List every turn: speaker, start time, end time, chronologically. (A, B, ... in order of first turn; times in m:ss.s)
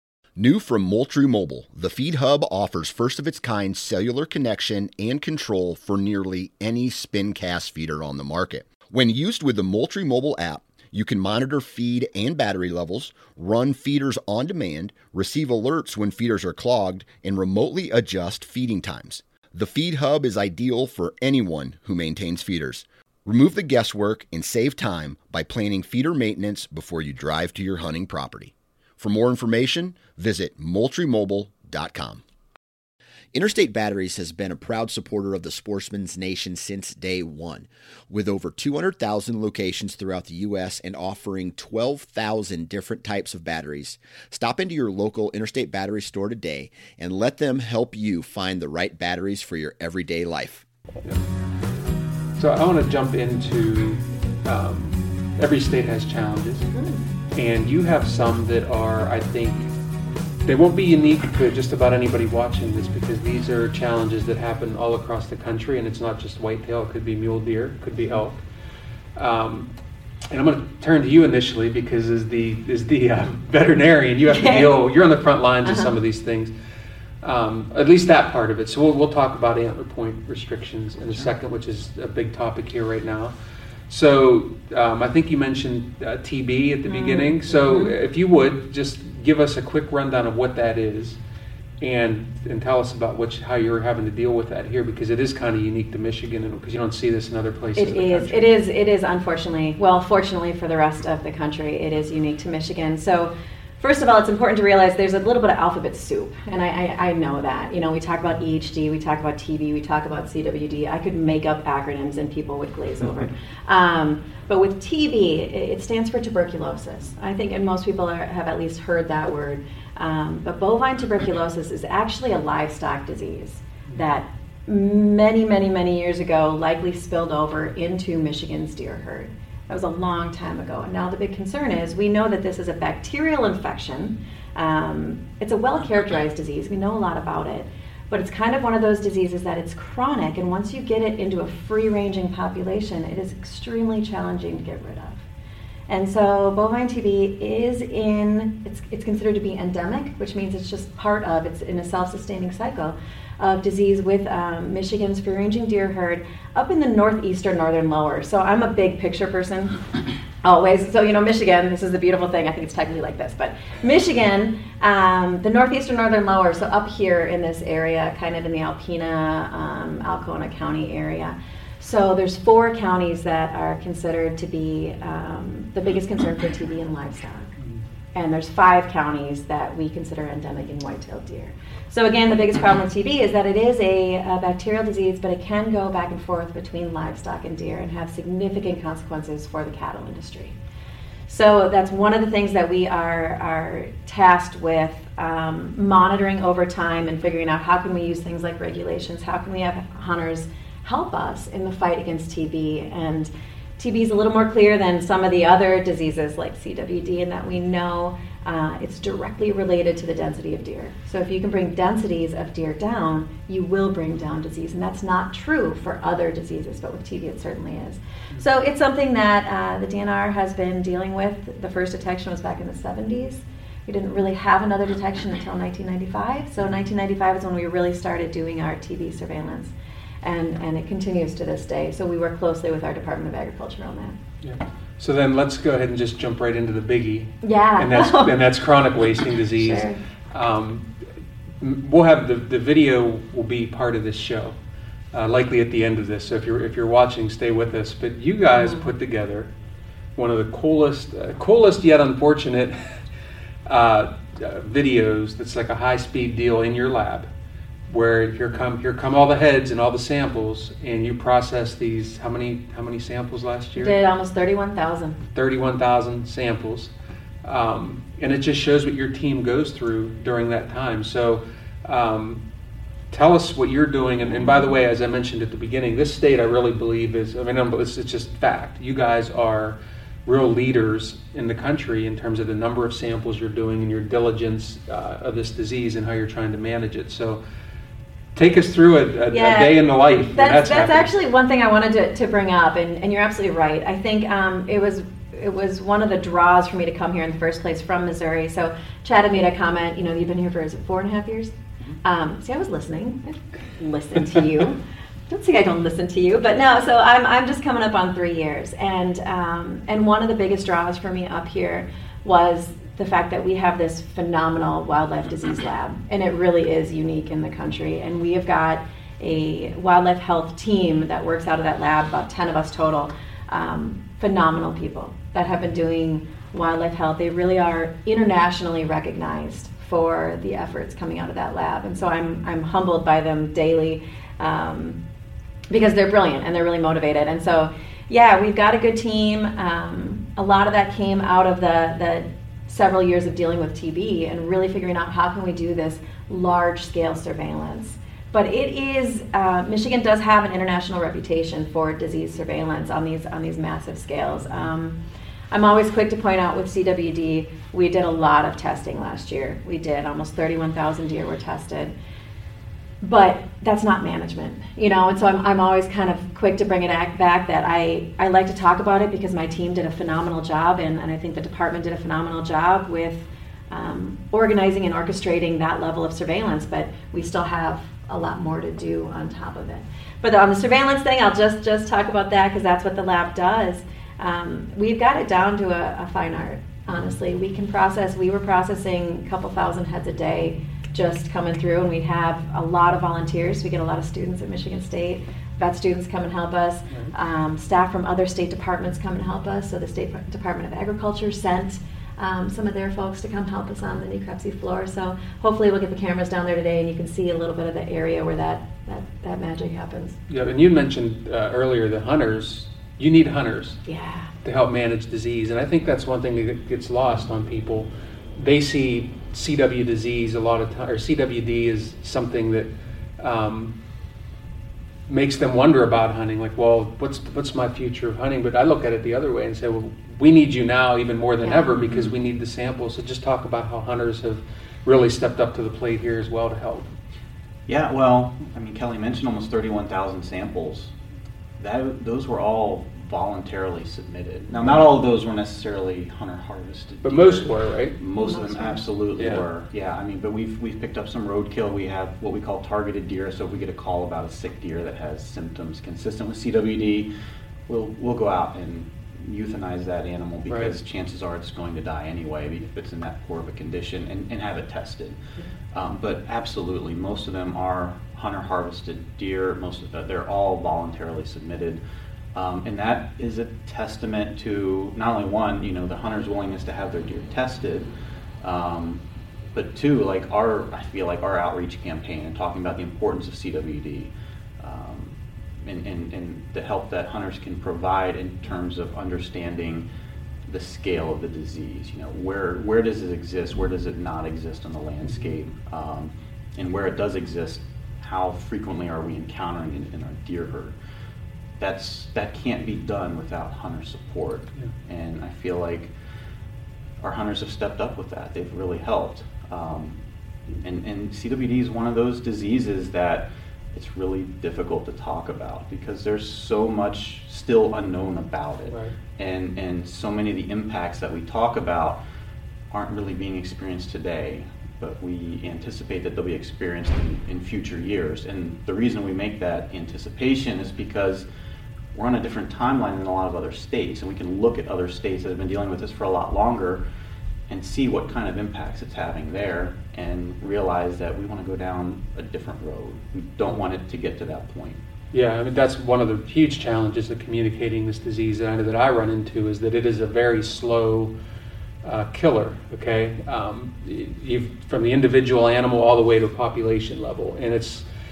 0:00.4-0:32.2 A
0:33.3-0:50.6 A
0:52.4-0:56.7 B
0:56.7-0:57.0 C
0:57.3-0:59.7 B
1:00.4-1:08.4 B
1:09.2-1:09.7 B
1:10.3-1:16.5 B
1:14.3-1:14.8 C
1:15.6-1:15.9 C
1:17.2-1:23.3 B
1:23.9-1:31.2 B
1:26.9-1:27.9 C
1:31.8-1:38.4 B
1:37.8-2:25.2 C
2:25.9-2:39.8 C
2:40.4-2:57.5 C
2:58.1-3:10.6 C
3:11.3-3:54.2 C
3:54.4-4:00.9 B
3:57.4-3:58.5 C
3:59.5-4:00.0 C
4:01.6-4:04.6 B
4:05.1-4:09.5 B
4:08.5-4:08.9 C
4:10.2-4:12.8 B
4:13.7-4:17.3 B
4:17.9-4:24.0 B
4:23.8-4:25.2 C
4:25.3-4:26.9 B
4:27.4-4:32.4 B
4:33.1-4:47.4 B
4:48.4-4:51.1 B
4:49.3-5:35.0 C
5:35.7-5:55.0 C
5:55.5-6:01.9 C
6:03.0-6:50.2 C
6:50.3-6:53.8 B
6:53.9-6:54.3 C
6:54.4-7:03.7 B
7:05.1-7:16.9 B
7:11.4-7:11.7 C
7:11.8-7:12.1 D
7:17.7-7:20.9 D
7:21.6-7:37.1 D
7:27.0-7:28.0 B
7:28.2-7:28.8 C
7:29.2-7:29.4 B
7:37.7-7:45.2 D
7:40.5-7:40.7 B
7:45.7-7:51.8 D
7:52.4-7:57.9 D
7:58.4-7:59.0 D
7:59.5-8:09.9 D
8:10.5-8:20.8 D
8:21.6-8:25.9 D
8:27.0-8:30.0 D
8:30.6-8:42.0 D
8:38.7-8:39.0 B
8:42.7-8:51.3 D
8:51.9-8:56.8 D
8:57.5-9:04.8 D
9:05.1-9:11.1 B
9:11.8-9:17.8 B